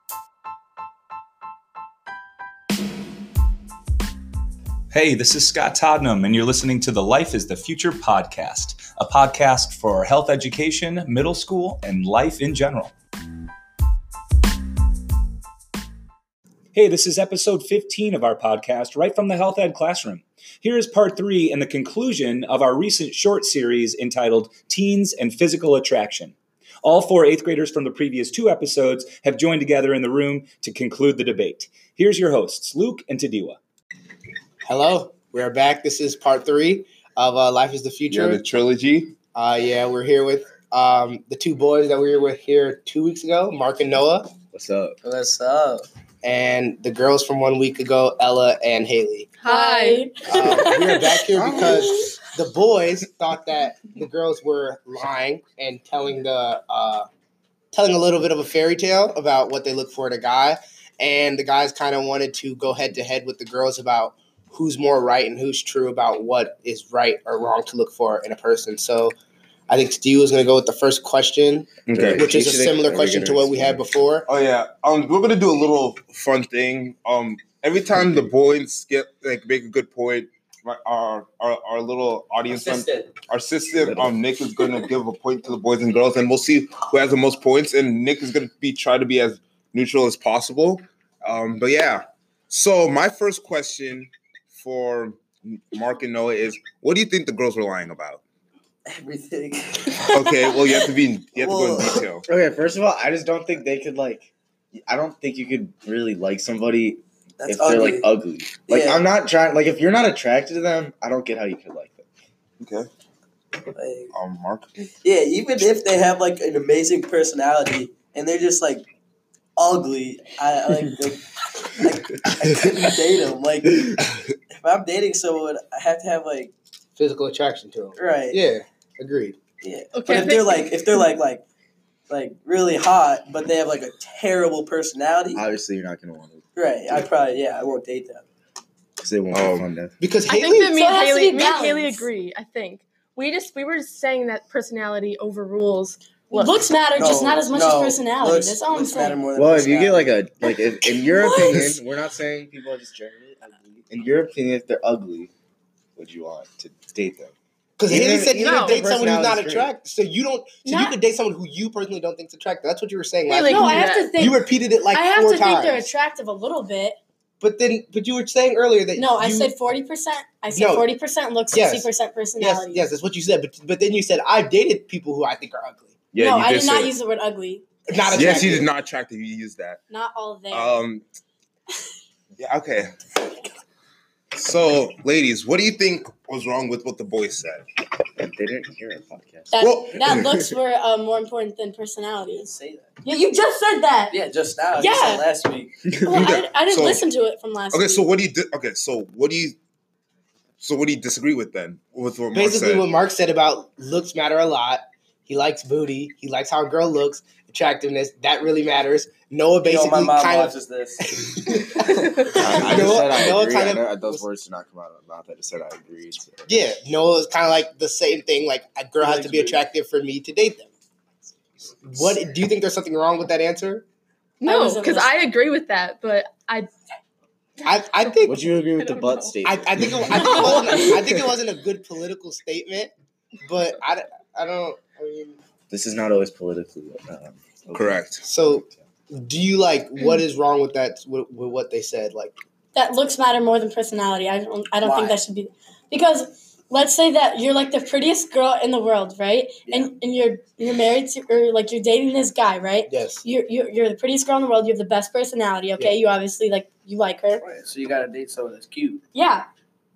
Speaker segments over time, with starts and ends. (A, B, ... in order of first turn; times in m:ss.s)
0:04.9-0:12.9 A
0:16.7-0:33.6 A
0:34.7-0:38.4 B
0:38.1-0:39.2 C
0:39.3-0:44.3 B
0:44.5-0:45.0 D
0:45.0-0:45.9 E
0:46.2-0:49.3 B
0:49.4-0:50.1 F
0:49.4-0:52.0 G
0:50.3-0:57.1 B
0:51.4-0:51.8 C
0:57.7-1:09.2 B
1:09.7-1:14.3 B
1:11.9-1:12.4 C
1:11.9-1:13.8 D
1:14.3-1:38.2 C
1:22.5-1:23.1 E
1:23.8-1:24.2 D
1:38.9-1:40.8 E
1:40.0-1:42.2 C
1:41.4-1:42.1 E
1:42.3-1:52.0 D
1:47.4-1:48.1 E
1:48.7-1:49.0 E
1:52.6-1:52.9 C
1:53.8-1:54.1 E
1:54.1-1:54.7 C
1:55.0-1:58.9 E
1:59.6-2:04.0 E
2:04.5-2:06.5 E
2:07.0-2:09.4 B
2:08.0-2:08.4 E
2:09.6-2:11.4 E
2:10.0-2:10.7 F
2:12.1-2:15.4 E
2:15.3-2:17.0 D
2:16.6-2:18.3 E
2:19.0-2:19.9 D
2:19.3-2:19.7 C
2:20.0-2:20.8 B
2:20.3-2:26.6 F
2:20.7-2:22.1 G
2:26.3-2:29.2 G
2:27.0-2:30.2 E
2:29.4-2:35.3 D
2:30.9-2:31.6 G
2:36.0-2:37.3 D
2:37.8-2:45.9 B
2:37.9-2:39.7 D
2:38.4-2:38.9 F
2:40.6-2:41.0 G
2:43.3-2:44.4 F
2:43.5-2:47.0 G
2:47.4-2:49.6 B
2:49.0-2:52.9 G
2:50.5-2:50.9 B
2:51.5-2:56.1 B
2:56.1-2:56.9 C
2:56.2-2:57.7 G
2:57.9-2:58.7 B
2:58.1-2:59.8 C
2:59.9-3:00.8 G
3:00.5-3:01.0 C
3:02.4-3:03.0 C
3:04.3-3:07.6 C
3:08.2-3:09.8 D
3:09.5-3:12.5 G
3:09.6-3:10.5 C
3:12.3-3:12.9 E
3:13.0-3:14.2 G
3:14.1-3:15.7 E
3:14.8-3:15.3 G
3:16.0-3:18.2 G
3:16.0-3:17.1 C
3:17.7-3:19.6 C
3:20.6-3:22.9 C
3:22.3-3:34.2 B
3:29.6-3:31.0 E
3:31.9-3:32.9 E
3:32.3-3:36.5 D
3:36.5-3:40.7 B
3:39.0-3:39.6 E
3:41.8-3:43.8 B
3:44.4-3:46.7 F
3:44.4-3:45.3 G
3:47.6-3:48.6 B
3:48.2-3:51.1 D
3:48.8-3:49.3 F
3:49.4-3:52.9 B
3:53.4-3:55.4 B
3:55.7-3:58.0 D
3:57.7-3:58.2 C
3:58.2-4:02.4 B
4:02.8-4:17.4 G
4:04.8-4:05.2 E
4:12.9-4:13.2 B
4:17.4-4:19.0 E
4:19.1-4:19.5 G